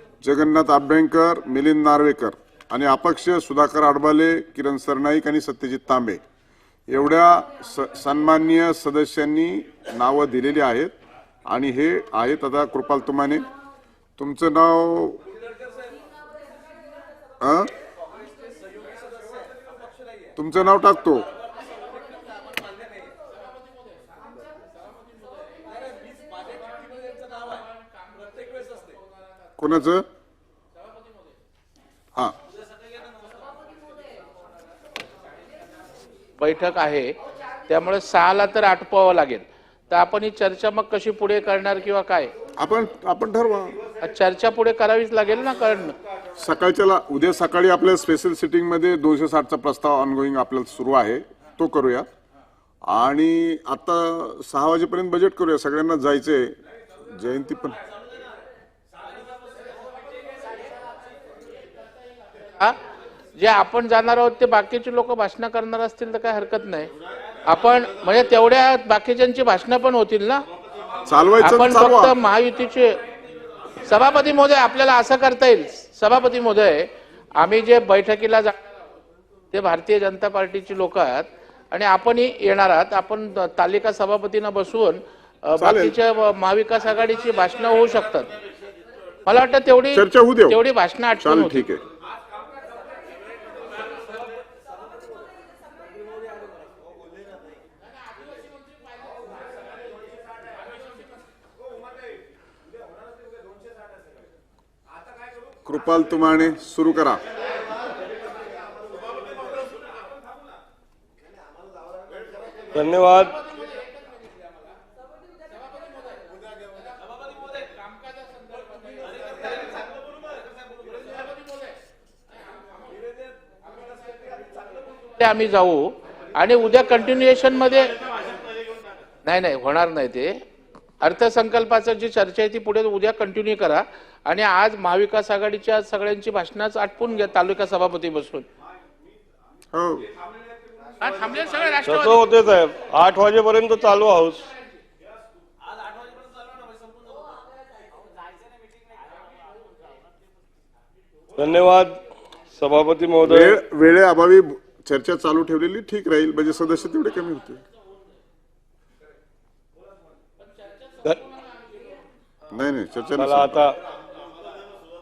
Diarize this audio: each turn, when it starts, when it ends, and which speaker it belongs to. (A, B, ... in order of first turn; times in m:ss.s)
0:00.2-0:06.2 A
0:06.9-0:10.9 A
0:11.5-0:13.4 A
0:14.2-0:15.2 A
0:17.4-0:17.7 A
0:20.4-0:21.3 A
0:29.6-0:30.0 A
0:36.4-0:42.3 B
0:42.6-0:43.8 A
0:44.0-0:46.0 B
0:46.4-0:52.1 A
0:52.8-0:57.8 A
1:02.4-1:02.8 B
1:03.4-1:06.9 B
1:07.4-1:10.4 B
1:11.0-1:12.1 A
1:11.4-1:13.0 B
1:13.8-1:18.6 B
1:19.5-1:28.3 B
1:25.6-1:25.9 A
1:29.2-1:31.7 B
1:29.9-1:30.6 A
1:31.2-1:31.8 A
1:45.6-1:47.2 A
1:52.7-1:53.4 C
2:05.2-2:08.0 B
2:09.2-2:10.4 B
2:11.0-2:18.5 B
2:19.7-2:20.1 A
2:21.0-2:22.3 B
2:21.8-2:24.5 C
2:31.3-2:32.0 C
2:32.5-2:33.6 C
2:33.2-2:37.6 A
2:42.5-2:43.6 A
2:43.2-2:43.8 C